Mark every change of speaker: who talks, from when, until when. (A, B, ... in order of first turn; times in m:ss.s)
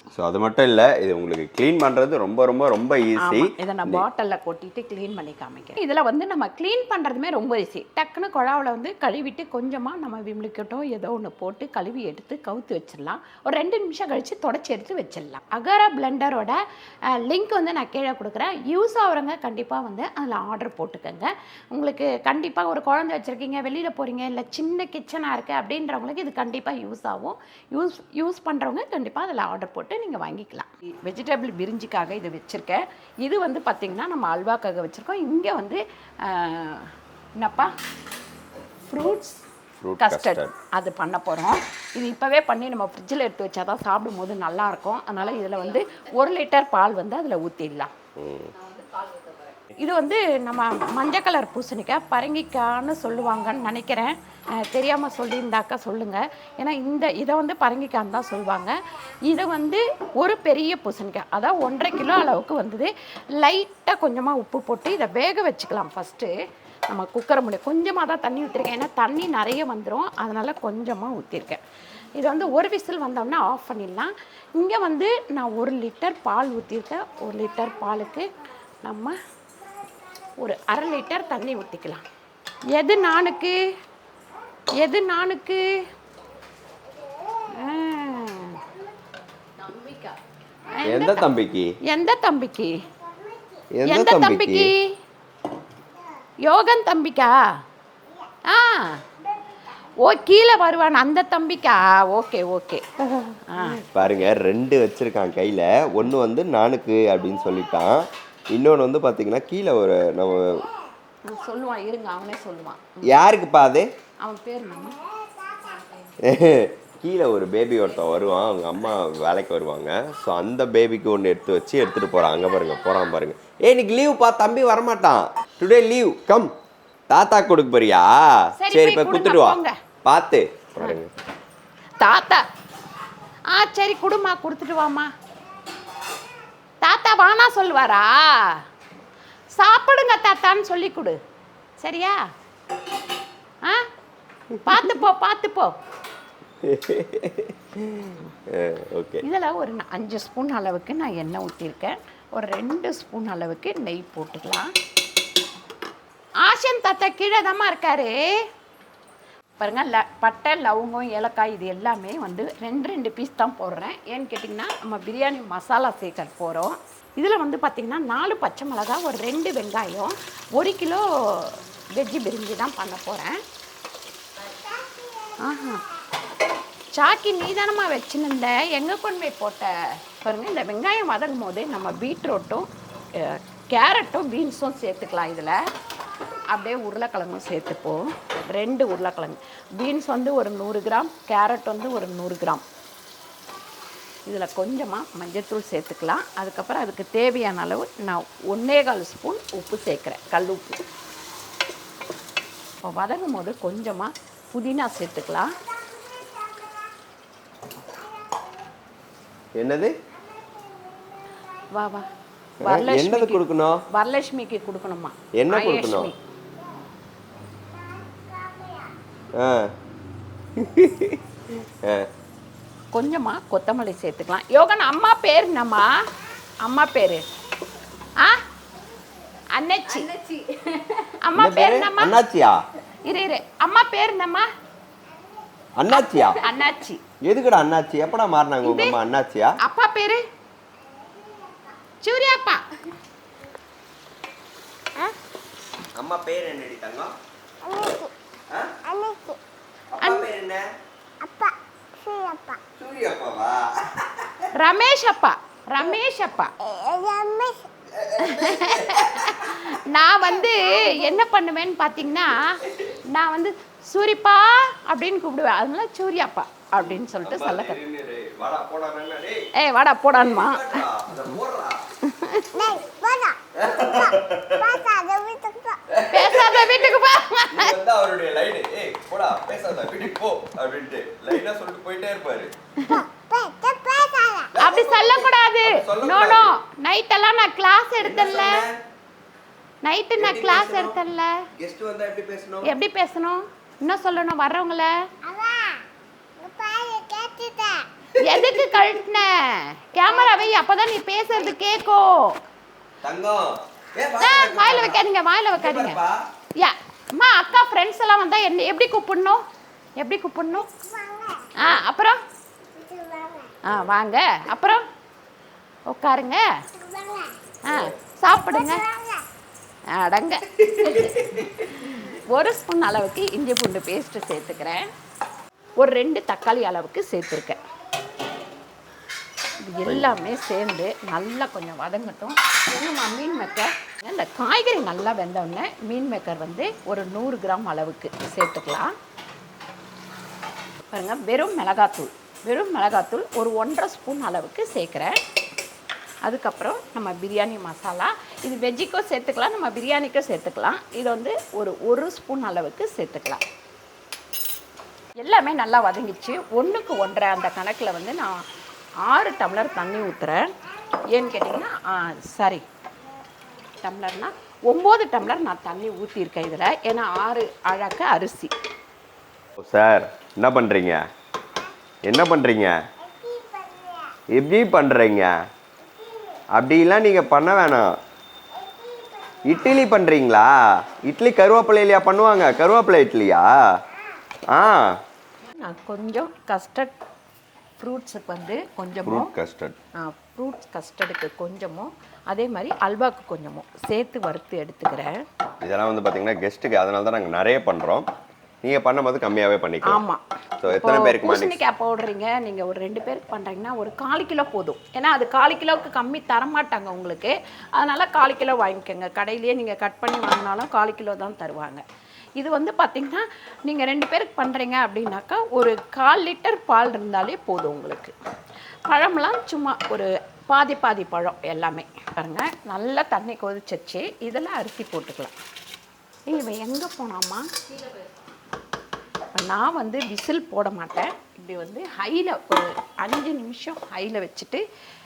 0:00.1-0:04.0 A
0:03.2-0:37.7 B
0:38.9-0:39.4 B
0:39.8-0:40.5 A
0:40.0-0:47.9 B
0:48.2-0:48.5 A
0:48.6-0:58.7 B
0:59.2-1:06.3 B
1:06.9-1:11.6 B
1:12.2-1:18.3 B
1:18.8-1:19.1 B
1:20.4-1:22.0 B
1:22.7-1:23.6 B
1:24.8-1:25.6 B
1:27.5-1:28.7 B
1:29.6-1:30.1 B
1:30.7-1:31.2 B
1:30.8-1:31.7 A
1:31.8-1:32.7 B
1:33.8-1:34.7 A
1:33.8-1:34.9 B
1:36.4-1:37.4 B
1:38.5-1:39.0 B
1:40.0-1:43.9 B
1:43.8-1:50.6 A
1:51.2-1:53.0 B
1:53.1-1:53.8 A
1:54.2-1:55.0 B
1:56.2-2:06.5 A
2:07.1-2:11.1 A
2:08.6-2:09.8 B
2:12.0-2:12.4 B
2:13.5-2:15.1 B
2:16.8-2:18.6 B
2:19.6-2:21.2 B
2:21.8-2:22.2 B
2:24.5-2:24.8 A
2:24.6-2:25.7 B
2:26.6-2:29.2 A
2:29.2-2:34.7 B
2:36.4-2:38.3 B
2:39.6-2:53.4 B
2:55.4-2:55.8 B
2:56.9-3:05.6 B
3:06.5-3:12.6 B
3:14.3-3:20.8 B
3:22.8-3:25.5 B
3:29.6-3:29.9 A
3:31.7-3:32.0 B
3:32.6-3:36.2 B
3:32.6-3:33.8 A
3:35.4-3:36.1 A
3:38.1-3:38.9 C
3:39.4-3:39.7 A
3:40.6-3:42.1 A
3:42.9-3:45.9 B
3:46.6-3:47.2 B
3:49.5-3:50.1 B
3:50.1-3:51.0 C
3:51.1-3:52.2 B
3:51.3-3:52.6 A
3:53.0-3:54.5 B
3:55.8-3:56.4 A
3:56.4-3:57.0 B
3:57.2-3:59.5 A
3:58.6-3:59.0 B
3:59.6-4:00.2 B
4:02.0-4:02.6 B
4:06.0-4:07.1 A
4:07.6-4:08.1 C
4:08.5-4:08.7 A
4:08.9-4:09.4 C
4:09.9-4:10.6 A
4:10.0-4:10.3 B
4:11.2-4:12.6 C
4:12.8-4:14.5 A
4:14.5-4:16.5 B
4:16.6-4:17.7 C
4:17.9-4:19.3 A
4:18.2-4:22.6 B
4:23.1-4:27.8 B
4:27.2-4:29.4 A
4:29.6-4:30.8 B
4:30.1-4:31.8 A
4:32.0-4:32.8 B
4:32.6-4:33.4 C
4:33.6-4:34.8 A
4:34.6-4:35.8 C
4:35.9-4:36.9 A
4:36.1-4:37.7 B
4:37.5-4:42.5 A
4:42.8-4:43.0 B
4:42.9-4:44.5 C
4:44.5-4:46.5 A
4:44.6-4:48.6 B
4:48.0-4:48.8 A
4:49.8-4:51.4 B
4:50.2-4:51.0 A
4:51.6-4:52.7 A
4:52.6-4:54.9 B
4:55.2-4:55.8 C
4:56.4-4:57.9 C
4:58.2-4:58.9 A
4:58.2-5:02.4 B
5:03.0-5:05.0 A
5:04.2-5:06.0 B
5:05.5-5:06.2 A
5:06.6-5:09.4 B
5:10.0-5:10.7 B
5:11.0-5:11.5 C
5:11.6-5:12.2 B
5:12.9-5:13.5 C
5:13.6-5:14.8 B
5:15.9-5:16.4 B
5:16.9-5:17.3 C
5:17.6-5:18.9 B
5:19.9-5:24.9 B
5:20.7-5:21.5 A
5:25.8-5:27.6 B
5:29.6-5:38.9 B
5:29.8-5:30.1 A
5:40.9-5:45.2 B
5:46.2-5:53.4 B
5:55.2-5:58.4 B
5:59.0-6:00.5 B
6:01.1-6:02.6 B
6:03.8-6:08.5 B
6:09.6-6:11.0 A
6:12.0-6:12.8 A
6:13.2-6:14.1 C
6:14.3-6:15.3 A
6:16.5-6:17.9 A
6:19.4-6:23.5 A
6:24.5-6:24.9 A
6:25.5-6:26.9 B
6:27.8-6:29.3 B
6:29.0-6:29.8 A
6:30.0-6:35.2 B
6:35.6-6:38.1 A
6:38.6-6:40.0 A
6:39.9-6:51.8 B
6:40.6-6:41.6 A
6:52.4-6:58.1 B
6:58.9-7:05.3 B
7:06.3-7:07.5 B
7:09.3-7:14.6 B